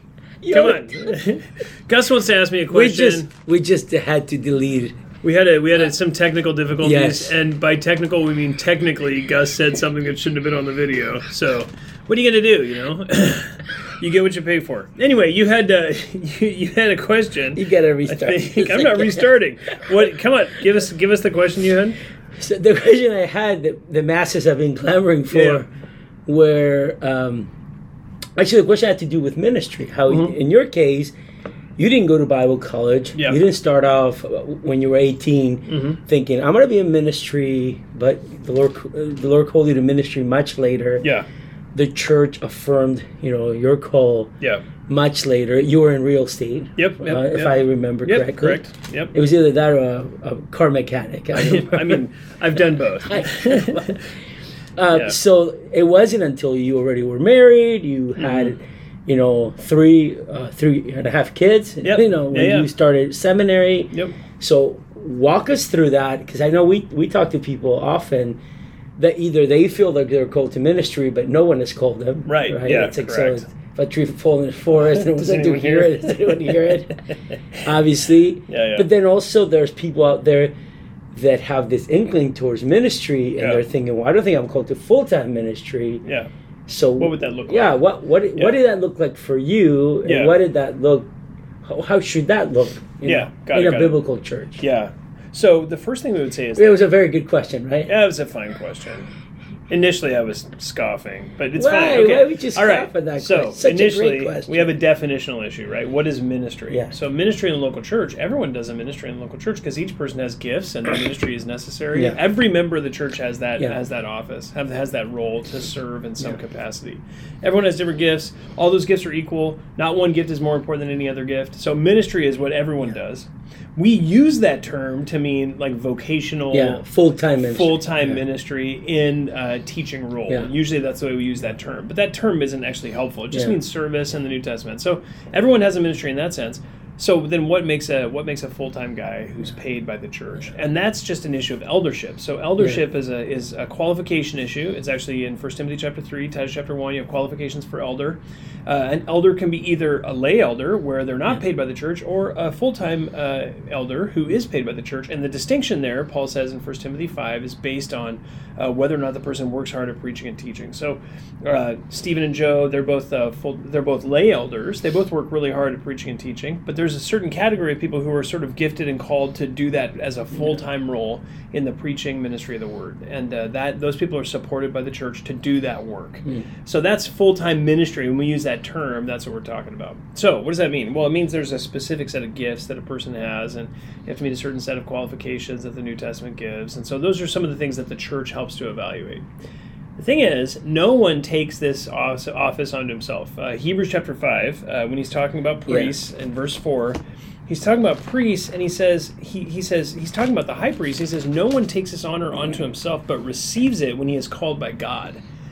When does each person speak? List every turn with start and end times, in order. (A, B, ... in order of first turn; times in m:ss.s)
0:00.4-0:01.2 A
0:00.5-0:03.3 B
0:02.7-0:05.0 A
0:05.2-0:22.0 B
0:06.8-0:07.4 A
0:17.6-0:19.3 A
0:22.4-0:25.7 A
0:25.3-0:25.6 B
0:26.3-0:27.5 A
0:28.4-0:31.1 A
0:30.1-0:30.4 B
0:31.8-0:41.0 A
0:33.2-0:33.4 B
0:35.7-0:36.0 B
0:41.0-0:41.3 B
0:41.7-0:44.3 A
0:44.9-0:52.0 A
0:46.8-0:49.1 B
0:51.4-0:54.0 B
0:53.0-0:54.0 A
0:54.8-1:08.4 A
0:54.9-0:55.2 B
0:58.2-0:58.6 B
1:01.8-1:02.7 B
1:03.9-1:04.2 B
1:09.0-1:17.0 A
1:12.3-1:13.5 B
1:14.9-1:16.8 B
1:17.6-1:20.5 A
1:18.5-1:18.9 B
1:21.1-1:26.0 A
1:26.0-1:26.3 B
1:26.7-1:31.1 A
1:27.0-1:27.8 B
1:30.0-1:30.4 B
1:31.6-1:34.6 A
1:33.0-1:34.0 B
1:34.6-1:36.8 B
1:36.6-1:37.9 A
1:37.9-1:39.1 B
1:39.7-2:06.8 B
1:41.6-1:44.8 A
1:51.9-1:52.2 A
2:06.5-2:08.2 A
2:07.4-3:09.3 B
2:13.3-2:13.6 A
3:10.0-3:25.2 B
3:15.7-3:16.0 A